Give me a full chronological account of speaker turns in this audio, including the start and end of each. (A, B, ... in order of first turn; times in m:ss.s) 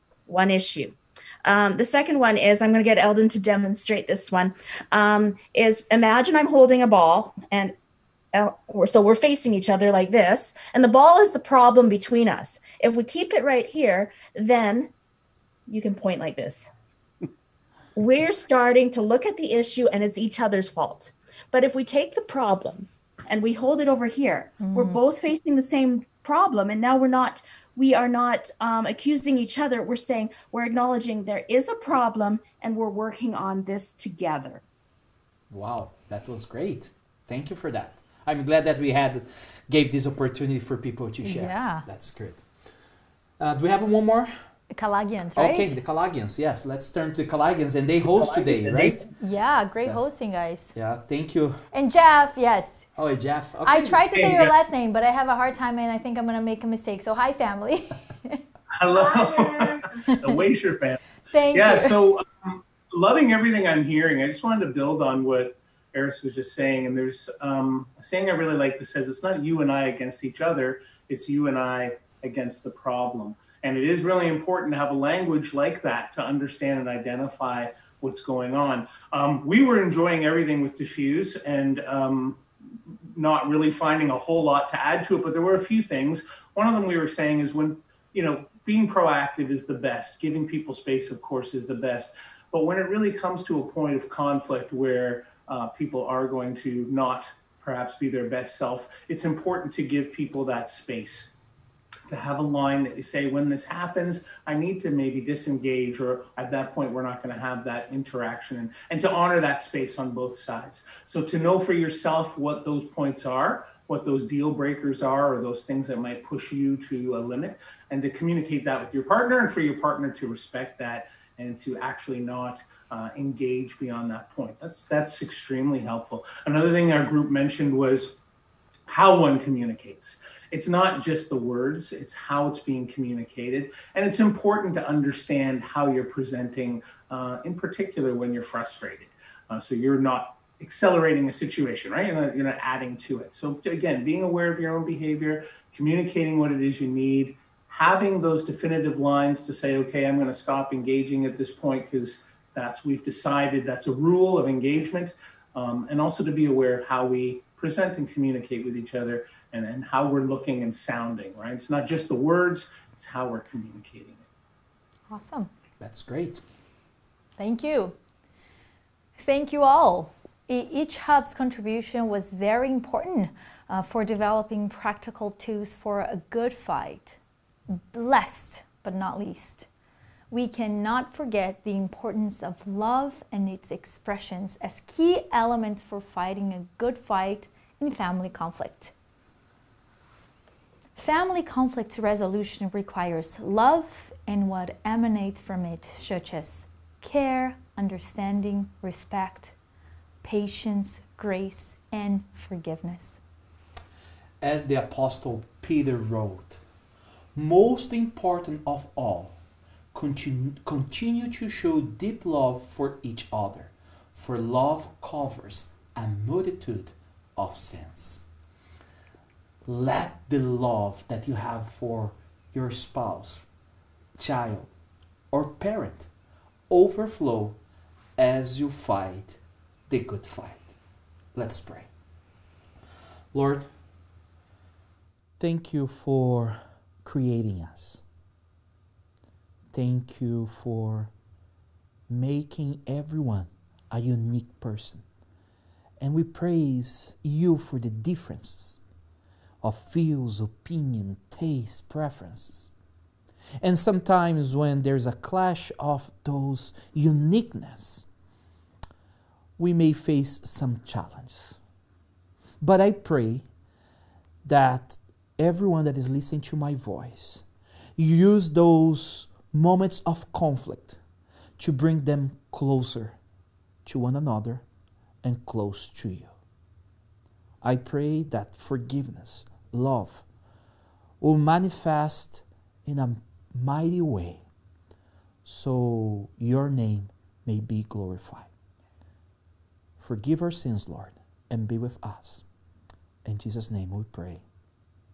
0:00.3-0:07.7 A
0:08.3-0:14.9 A
0:15.7-0:16.7 A
0:18.0-0:34.6 A
0:24.6-0:25.0 B
0:35.5-0:42.4 C
0:41.2-0:41.8 B
0:43.4-0:44.3 C
0:44.7-0:45.7 B
0:45.4-0:49.0 C
0:48.4-0:48.9 A
0:49.1-0:50.7 B
0:50.7-0:51.6 C
0:51.7-0:52.8 B
0:53.0-0:54.1 C
0:53.6-0:58.4 B
0:54.1-0:54.5 D
0:58.8-1:01.0 D
0:59.1-0:59.6 B
1:01.3-1:02.0 B
1:01.5-1:22.4 D
1:23.1-1:41.3 D
1:42.1-2:08.2 D
2:08.9-2:44.2 D
2:45.1-2:45.5 B
2:45.8-2:46.4 C
2:47.4-2:47.9 B
2:49.2-2:57.2 B
2:57.9-2:59.7 B
3:00.3-3:08.9 B
3:11.0-3:19.5 B
3:20.2-3:23.2 B
3:24.4-3:26.6 C
3:27.3-3:29.4 C
3:29.9-3:38.2 C
3:39.6-3:43.4 C
3:44.2-3:44.7 C
3:45.3-3:46.1 C
3:46.7-3:47.6 C
3:48.2-3:49.4 C
3:49.9-3:50.7 C
3:51.3-3:51.9 C
3:53.3-3:53.7 C
3:55.4-3:58.0 C
3:59.7-4:01.1 C
4:02.1-4:05.0 C
4:06.0-4:08.8 C
4:09.6-4:12.7 C
4:13.6-4:18.1 C
4:19.6-4:21.6 C
4:22.6-4:23.4 C
4:24.4-4:27.4 C
4:28.0-4:31.0 C
4:31.6-4:33.2 C
4:33.8-4:34.6 C
4:35.2-4:36.3 C
4:37.6-4:40.2 C
4:41.2-4:44.4 C
4:45.4-4:48.5 C
4:50.0-4:52.4 C
4:53.2-4:54.4 C